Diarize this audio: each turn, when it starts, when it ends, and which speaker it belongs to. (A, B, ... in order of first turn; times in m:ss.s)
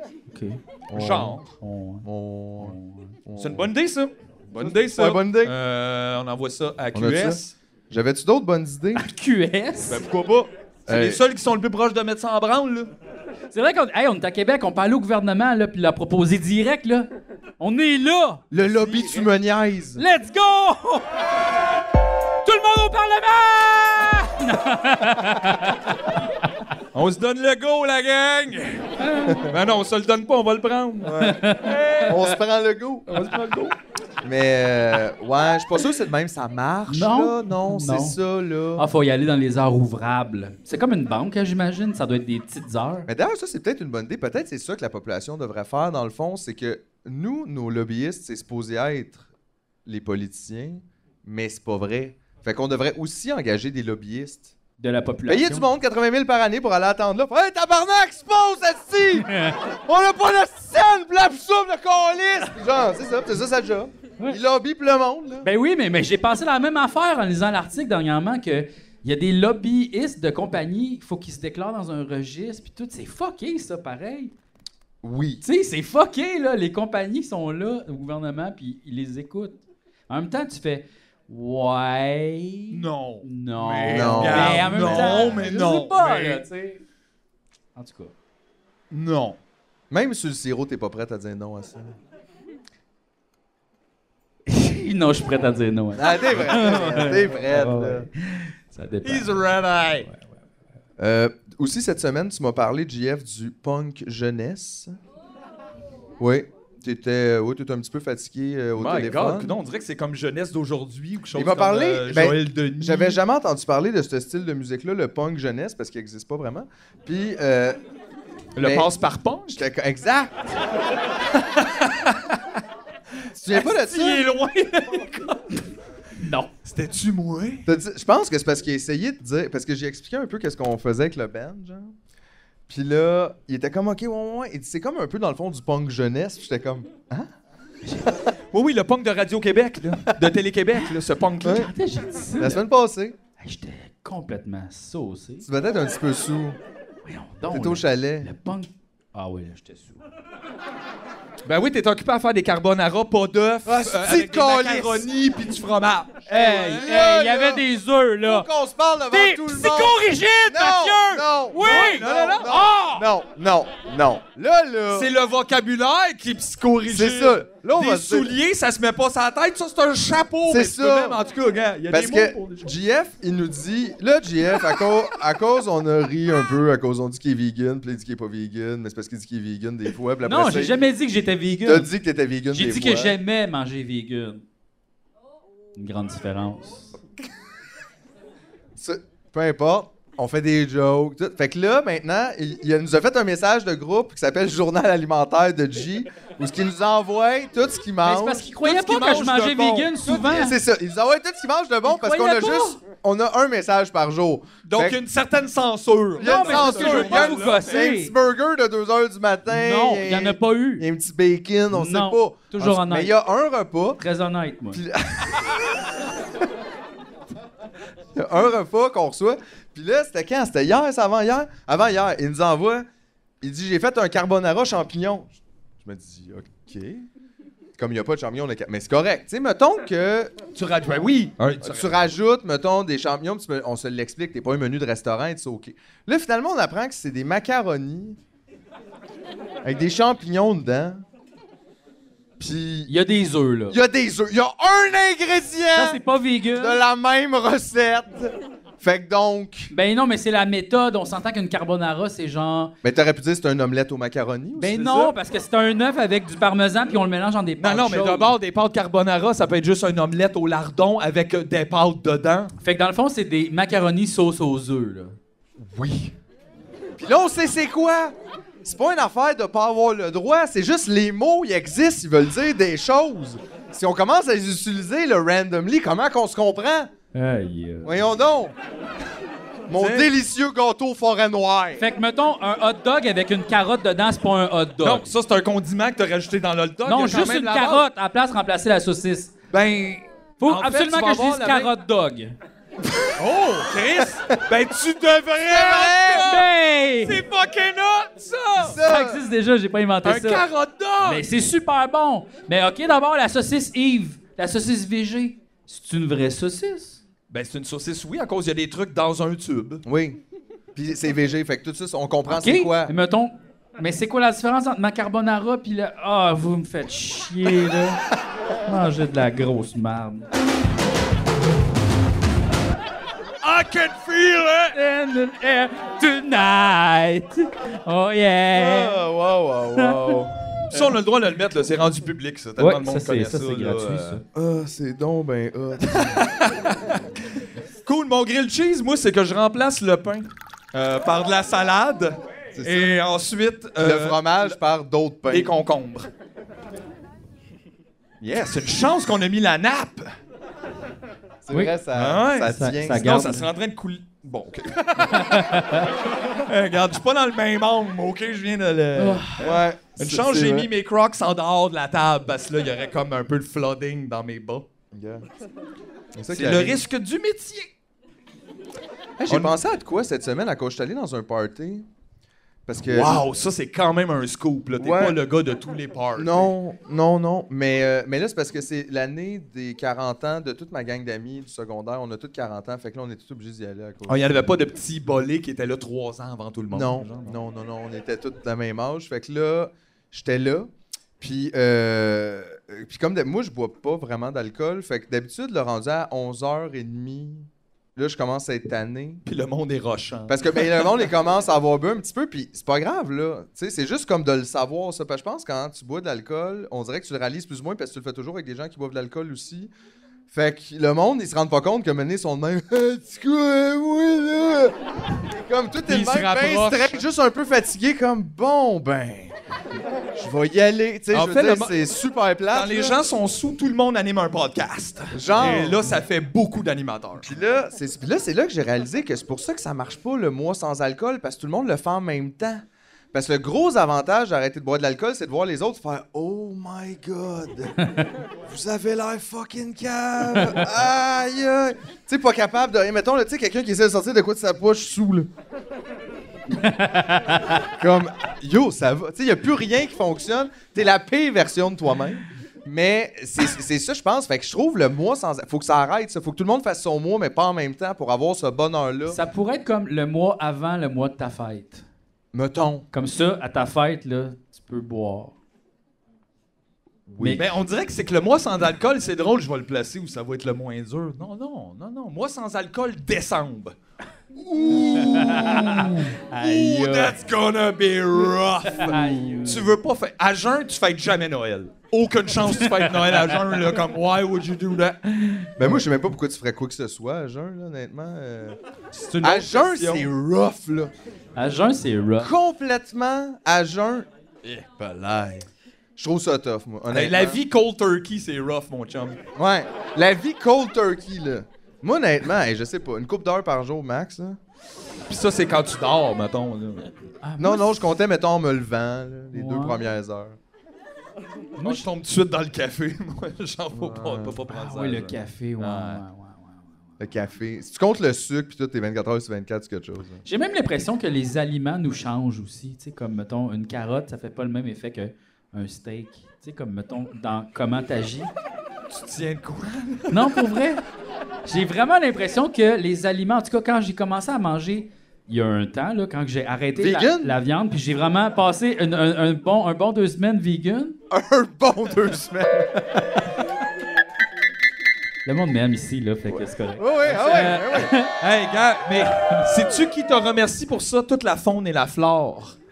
0:00.3-0:00.6 A
0:00.9-0:01.4 B
0:00.9-0:01.5 C
0:01.6-0:02.1 A
0:02.0-0:03.7 B
0:02.6-0:03.2 A
0:03.4-0:07.5 C
0:04.6-0:05.5 B
0:06.9-0:09.0 B
0:09.0-0:10.0 A
0:09.9-0:12.9 C
0:10.9-0:11.2 B
0:13.5-0:18.4 A
0:18.5-0:20.0 B
0:18.5-0:19.3 C
0:20.0-0:21.4 A
0:22.4-0:25.9 A
0:26.9-0:32.1 C
0:29.0-0:29.5 A
0:31.0-0:31.4 B
0:31.2-0:32.3 A
0:32.0-0:33.1 B
0:33.1-0:33.7 A
0:33.1-0:33.7 C
0:34.2-0:38.8 B
0:36.9-0:38.2 A
0:38.8-0:43.1 A
0:43.1-0:49.2 B
0:49.8-0:54.5 B
0:54.8-0:55.7 A
0:55.2-1:05.5 B
0:59.2-0:59.6 A
1:05.4-1:14.3 A
1:15.0-1:15.4 B
1:15.4-1:26.8 A
1:22.7-1:26.4 C
1:23.9-1:25.4 B
1:27.7-1:28.1 A
1:28.9-1:29.4 C
1:29.9-1:32.0 B
1:34.5-1:39.4 A
1:35.9-1:38.1 B
1:39.0-1:40.1 C
1:41.0-1:45.0 B
1:46.2-1:49.5 B
1:48.8-1:53.2 C
1:51.3-1:57.8 B
1:58.6-1:59.6 C
1:58.6-1:58.9 B
1:59.5-2:00.4 B
2:01.3-2:02.4 C
2:03.3-2:04.3 B
2:03.5-2:05.6 C
2:06.2-2:06.5 A
2:06.6-2:07.7 C
2:07.6-2:11.9 B
2:12.7-2:17.3 B
2:17.8-2:18.2 A
2:18.5-2:21.7 C
2:21.4-2:21.7 B
2:21.4-2:22.6 A
2:22.4-2:23.2 B
2:23.4-2:25.4 A
2:25.4-2:26.6 B
2:27.0-2:30.0 A
2:27.5-2:28.3 B
2:31.4-2:36.2 C
2:33.6-2:35.1 B
2:36.2-2:37.6 B
2:36.3-2:38.5 A
2:38.2-2:45.1 B
2:39.1-2:43.0 A
2:41.6-2:42.8 C
2:44.9-2:52.7 C
2:46.8-2:48.3 B
2:50.4-2:51.2 B
2:51.9-3:00.8 B
3:00.2-3:01.9 A
3:01.6-3:03.2 B
3:02.5-3:04.4 A
3:05.8-3:06.9 A
3:08.8-3:18.5 B
3:18.0-3:20.6 A
3:18.6-3:20.1 C
3:20.0-3:25.0 B
3:21.8-3:22.8 A
3:24.6-3:27.8 C
3:26.2-3:34.0 B
3:26.2-3:28.1 A
3:29.5-3:30.8 A
3:31.7-3:33.2 A
3:34.0-3:34.8 A
3:34.7-3:35.8 B
3:38.1-3:42.8 B
3:43.4-3:47.1 B
3:47.8-3:50.3 B
3:50.5-3:52.0 C
3:51.6-3:58.2 B
3:59.6-4:01.0 B
4:02.4-4:02.9 B
4:02.9-4:03.8 A
4:03.7-4:06.0 B
4:05.7-4:06.8 A
4:06.6-4:09.7 B
4:09.7-4:12.7 A
4:12.8-4:14.8 B
4:14.6-4:18.3 A
4:14.6-4:15.1 C
4:17.6-4:22.5 C
4:22.6-4:25.2 A
4:25.6-4:26.1 B
4:27.0-4:36.9 B
4:37.1-4:38.1 A
4:37.8-4:38.5 B
4:39.7-4:41.8 B
4:39.7-4:40.1 C
4:41.8-4:45.1 A
4:44.8-4:47.8 C
4:46.8-4:49.3 A
4:49.5-4:51.7 C
4:50.4-4:52.3 A
4:53.2-4:56.5 C
4:55.5-4:56.4 B
4:56.2-4:57.2 A
4:57.0-4:58.8 C
4:58.6-4:59.2 B
4:58.8-5:00.4 A
5:00.0-5:01.2 C
5:01.0-5:07.0 A
5:07.3-5:09.8 C
5:09.8-5:10.2 B
5:10.7-5:12.9 B
5:12.3-5:18.0 A
5:18.6-5:20.3 A
5:23.4-5:24.8 C
5:24.7-5:29.0 A
5:28.5-5:30.3 B
5:29.8-5:30.2 A
5:30.7-5:34.2 C
5:32.6-5:34.2 A
5:34.3-5:36.3 B
5:35.9-5:37.0 C
5:37.8-5:44.6 C
5:42.5-5:43.0 B
5:43.8-5:45.5 B
5:45.3-5:46.1 C
5:48.2-5:50.1 C
5:51.4-5:53.1 B
5:51.5-5:51.8 A
5:51.9-5:55.6 C
5:52.5-5:53.5 A
5:55.0-5:55.9 A
5:56.3-6:04.6 C
5:59.0-5:59.4 A
5:59.4-6:00.7 B
6:04.9-6:05.2 B
6:06.1-6:06.8 B
6:06.3-6:07.7 C
6:09.2-6:11.9 B
6:09.3-6:09.6 C
6:12.6-6:13.2 B
6:12.8-6:16.5 C
6:14.8-6:15.2 B
6:16.2-6:24.3 B
6:24.1-6:27.4 C
6:26.7-6:39.2 B
6:39.2-6:41.0 C
6:40.3-6:49.7 B
6:50.3-6:54.7 B
6:55.3-6:59.3 B
6:55.8-6:57.0 C
7:00.1-7:03.0 B
7:01.1-7:01.8 C
7:02.5-7:07.3 C
7:05.1-7:06.0 B
7:07.2-7:12.6 B
7:13.1-7:17.7 B
7:17.8-7:18.1 A
7:18.4-7:25.3 B
7:20.3-7:20.6 A
7:26.5-7:27.6 A
7:27.8-7:39.2 B
7:39.1-7:41.8 A
7:42.3-7:42.8 B
7:42.9-7:45.4 A
7:47.1-7:47.4 B
7:47.3-7:53.7 C
7:54.5-7:55.4 B
7:54.7-8:05.0 C
7:54.8-7:57.2 A
7:58.7-7:59.7 A
8:02.5-8:03.5 A
8:05.1-8:05.7 A
8:05.6-8:08.6 B
8:08.9-8:09.5 A
8:09.2-8:10.9 B
8:09.3-8:10.1 C
8:11.4-8:12.3 A
8:12.2-8:14.0 B
8:14.6-8:17.4 B
8:16.9-8:19.2 C
8:19.3-8:24.4 B
8:25.1-8:26.9 C
8:27.2-8:27.8 A
8:27.4-8:30.4 B
8:29.3-8:29.8 A
8:31.6-8:31.8 A
8:31.6-8:36.0 C
8:33.7-8:34.4 B
8:34.5-8:36.6 A
8:37.0-8:40.2 B
8:40.2-8:48.3 A
8:48.9-8:50.4 C
8:50.1-8:50.8 A
8:51.4-9:01.0 A
8:56.8-8:57.4 B
9:01.1-9:03.2 B
9:05.2-9:08.1 A
9:06.8-9:07.9 B
9:08.2-9:12.6 C
9:09.1-9:09.5 A